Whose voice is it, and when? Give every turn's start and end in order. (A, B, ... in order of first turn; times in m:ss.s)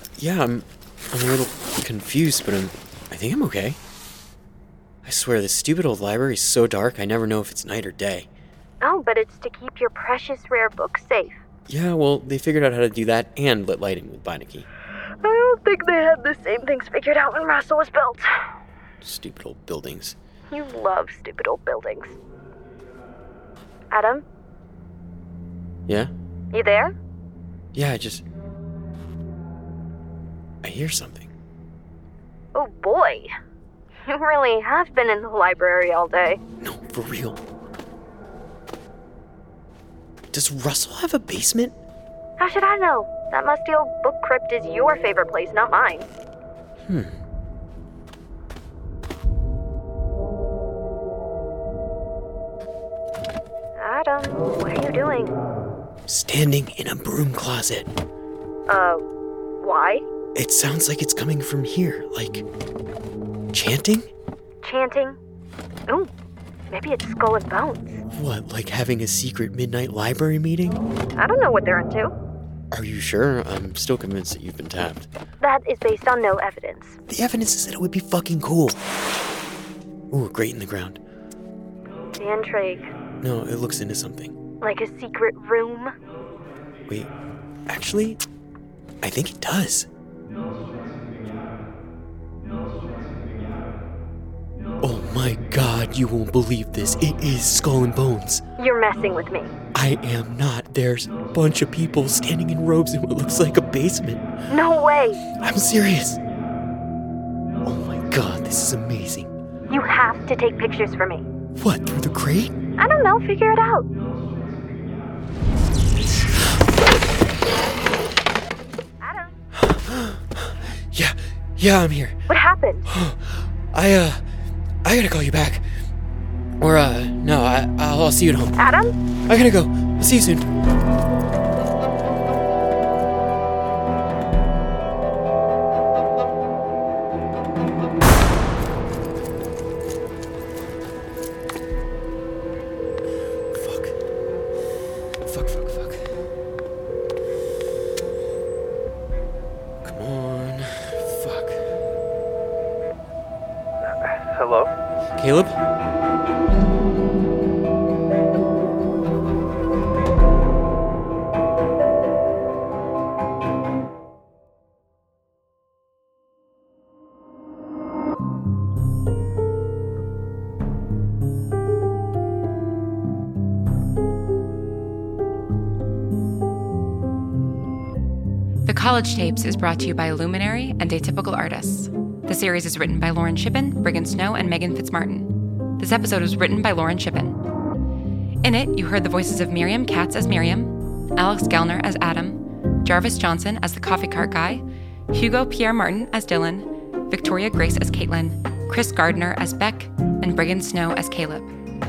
0:00.2-0:03.8 A
0:05.0-0:08.3 A
0:08.8-0:11.4 B
0:11.7-0:14.7 A
0:15.2-0:18.3 B
0:19.0-0:20.2 A
0:20.5-0:22.2 B
0:23.9-0:24.2 B
0:25.9-0:26.1 A
0:26.5-0:27.0 B
0:27.7-0:28.2 A
0:30.6-0:31.3 A
0:32.5-0:33.3 B
0:34.1-0:36.4 B
0:36.6-0:37.4 A
0:40.3-0:41.8 A
0:42.4-0:46.1 B
0:46.8-0:47.2 A
0:53.8-0:55.4 B
0:56.1-0:57.9 A
0:58.7-0:59.0 B
0:59.6-1:00.0 B
1:00.4-1:02.4 A
1:03.5-1:04.1 A
1:04.6-1:05.2 B
1:06.7-1:08.0 B
1:08.1-1:10.8 A
1:11.2-1:12.2 B
1:12.7-1:15.1 A
1:15.4-1:17.0 B
1:17.1-1:18.8 A
1:20.1-1:21.0 A
1:22.2-1:22.9 B
1:23.2-1:24.4 A
1:24.6-1:25.9 B
1:27.7-1:28.2 A
1:29.0-1:29.9 A
1:34.8-1:38.4 A
1:38.6-1:39.6 B
1:39.7-1:44.3 A
1:44.5-1:45.2 B
1:45.3-1:46.2 A
1:47.6-1:49.3 A
1:49.7-1:51.3 B
1:51.6-1:52.5 A
1:52.8-1:53.9 B
1:59.0-1:59.4 B
1:59.5-2:02.2 A
2:02.3-2:02.8 B
2:02.9-2:04.2 A
2:04.8-2:05.7 A
2:06.6-2:08.6 A
2:08.6-2:08.9 B
2:09.3-2:10.5 A
2:23.5-2:24.0 A
2:25.2-2:26.2 A
2:29.8-2:31.6 A
2:35.2-2:35.6 A
2:58.6-3:07.4 C
3:08.4-3:21.5 C